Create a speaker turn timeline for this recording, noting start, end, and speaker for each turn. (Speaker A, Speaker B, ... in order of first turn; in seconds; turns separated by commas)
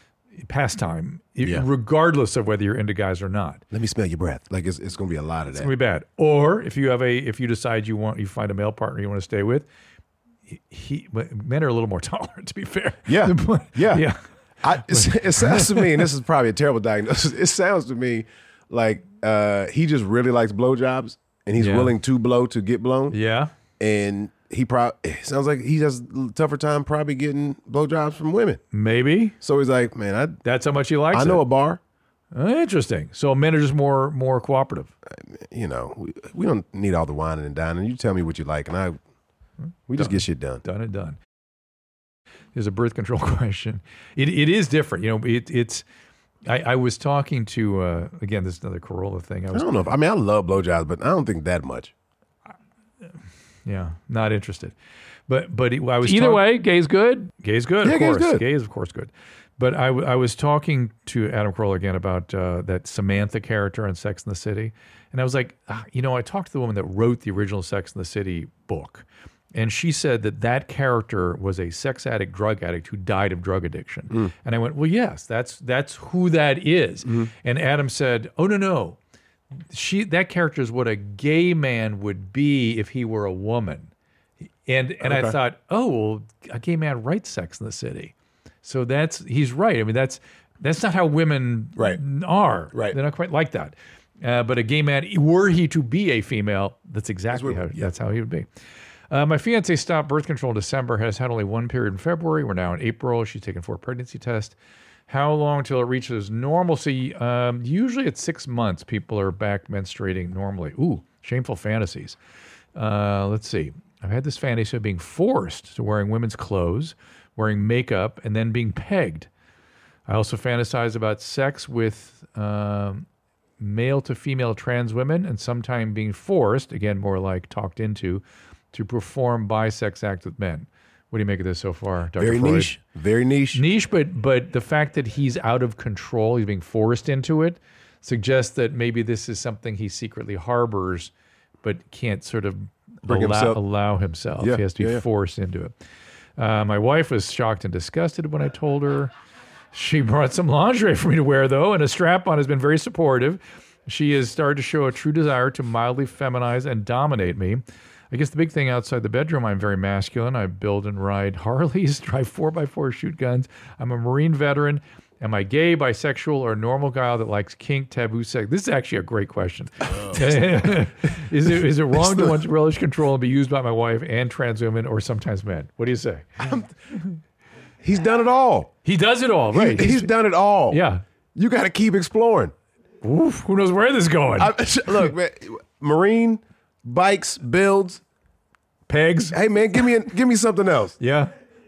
Speaker A: 0.4-3.6, Speaker B: 3.7-5.7, Speaker A: 5.5-9.7, Speaker A: 10.5-14.2, Speaker B: 13.1-14.0, Speaker B: 14.6-23.1, Speaker A: 14.7-16.1, Speaker A: 21.6-21.9, Speaker A: 23.1-23.5, Speaker B: 23.8-28.6, Speaker A: 28.7-29.4, Speaker B: 29.4-30.4, Speaker A: 30.4-31.4, Speaker B: 31.1-31.8, Speaker A: 32.3-34.9, Speaker B: 35.1-39.0, Speaker B: 39.9-40.6, Speaker A: 39.9-41.2, Speaker A: 42.5-45.8, Speaker A: 46.5-49.9, Speaker B: 49.5-51.9, Speaker A: 53.6-54.7, Speaker A: 55.3-79.0, Speaker B: 56.0-56.4, Speaker B: 57.8-58.4, Speaker B: 77.0-77.3, Speaker A: 79.7-83.9, Speaker A: 84.7-98.5, Speaker B: 85.0-85.4, Speaker B: 92.7-93.0, Speaker B: 97.3-97.9, Speaker A: 99.1-104.5, Speaker A: 105.1-112.2, Speaker A: 112.8-119.3, Speaker A: 120.1-123.0, Speaker A: 123.6-132.8, Speaker B: 132.2-133.6, Speaker A: 133.5-141.1, Speaker A: 141.6-145.7, Speaker B: 143.1-143.6, Speaker B: 144.4-145.0, Speaker A: 146.4-149.1, Speaker A: 149.7-176.4, Speaker B: 169.9-170.8, Speaker B: 171.9-172.4, Speaker B: 176.4-176.7, Speaker B: 177.8-178.7, Speaker A: 178.8-180.1, Speaker B: 179.5-180.8, Speaker A: 180.7-181.0, Speaker B: 181.3-182.5, Speaker A: 183.0-185.1, Speaker B: 184.4-188.0, Speaker A: 188.9-189.8, Speaker B: 189.3-191.0, Speaker A: 191.0-191.3